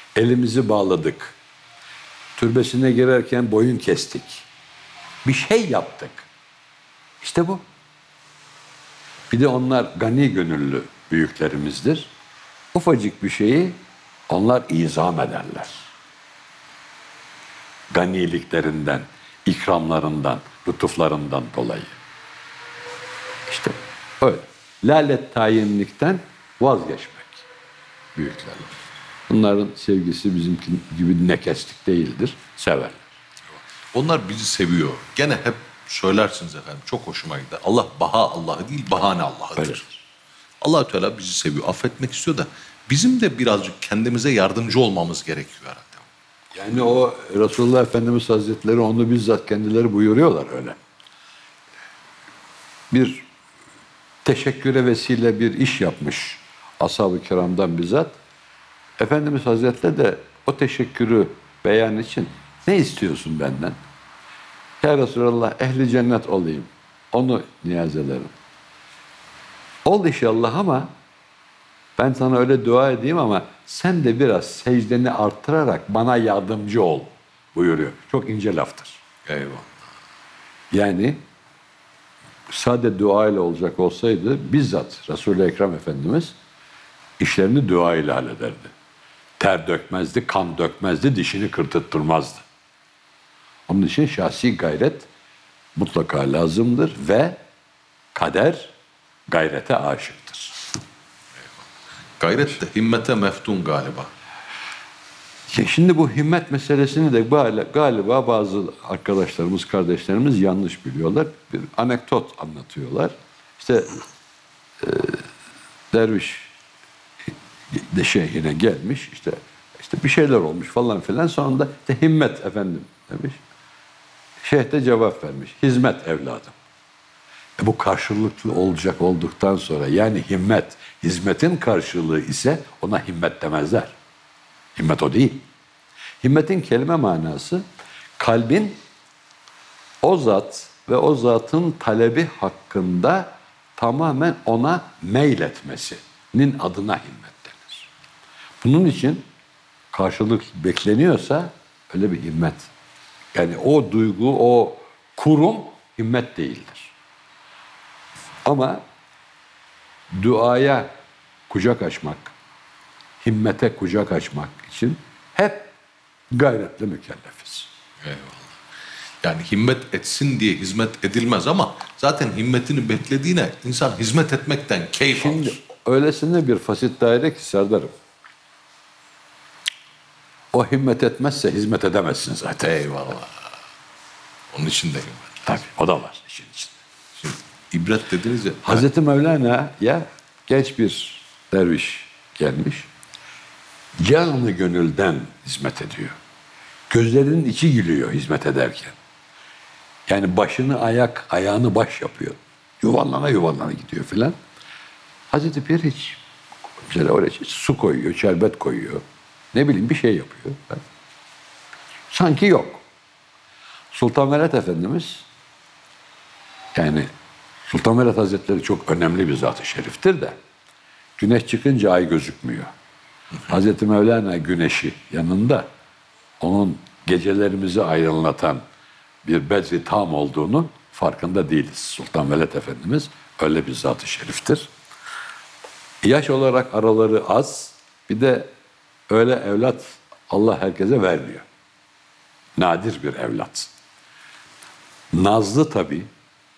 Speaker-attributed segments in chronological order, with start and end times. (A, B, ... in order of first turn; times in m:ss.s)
0:00.2-0:01.4 A
0:02.4-0:04.4 A
0:05.2-0:06.3 A
0:07.2-0:07.6 A
0:09.3-0:12.1 A
0:12.7-0:13.8 A
0:14.3-0:15.9 A
0:17.9-0:22.0 A
0:23.5-0:27.5 A
0:28.2-0:28.7 A
0:29.3-0:33.1 A
0:33.9-0:39.8 B
0:39.6-0:40.0 A
0:40.6-0:46.0 B
0:46.5-0:50.8 A
0:52.9-0:53.2 A
0:54.2-0:58.2 A
0:59.0-1:03.8 A
1:04.8-1:08.3 A
1:09.8-1:10.9 A
1:12.0-1:19.0 A
1:19.2-1:19.7 B
1:20.7-1:21.2 A
1:22.5-1:26.4 A
1:27.2-1:28.7 A
1:29.4-1:32.4 A
1:33.7-1:35.1 A
1:35.8-1:37.4 A
1:38.1-1:38.7 A
1:39.3-1:40.6 A
1:42.2-1:44.1 B
1:45.5-1:54.0 A
1:54.8-1:55.2 A
1:55.9-1:56.5 A
1:57.3-2:03.4 A
2:04.4-2:06.5 A
2:07.6-2:13.9 A
2:14.8-2:15.4 A
2:16.2-2:17.6 A
2:18.2-2:18.8 A
2:20.0-2:27.9 A
2:28.6-2:29.3 A
2:29.9-2:32.7 A
2:33.3-2:36.9 A
2:38.4-2:38.8 A
2:40.1-2:40.9 A
2:41.5-2:42.3 A
2:43.2-2:45.7 A
2:46.3-2:47.7 A
2:48.0-2:48.5 B
2:49.2-2:55.6 B
2:55.1-2:57.9 A
3:00.5-3:02.8 A
3:02.6-3:03.3 B
3:04.5-3:05.6 B
3:05.5-3:06.8 A
3:07.2-3:08.8 B
3:08.6-3:12.9 A
3:14.0-3:16.2 A
3:16.9-3:19.0 A
3:20.1-3:24.4 A
3:25.3-3:26.2 A
3:26.9-3:29.0 A
3:29.5-3:30.8 A
3:32.1-3:32.8 A
3:33.9-3:35.2 A
3:36.7-3:37.1 A
3:37.7-3:40.4 A
3:41.2-3:42.7 A
3:43.5-3:45.7 A
3:46.4-3:48.6 A
3:49.2-3:54.7 A
3:56.0-3:58.5 A
3:59.1-4:01.4 A
4:02.6-4:03.7 A
4:05.1-4:06.1 A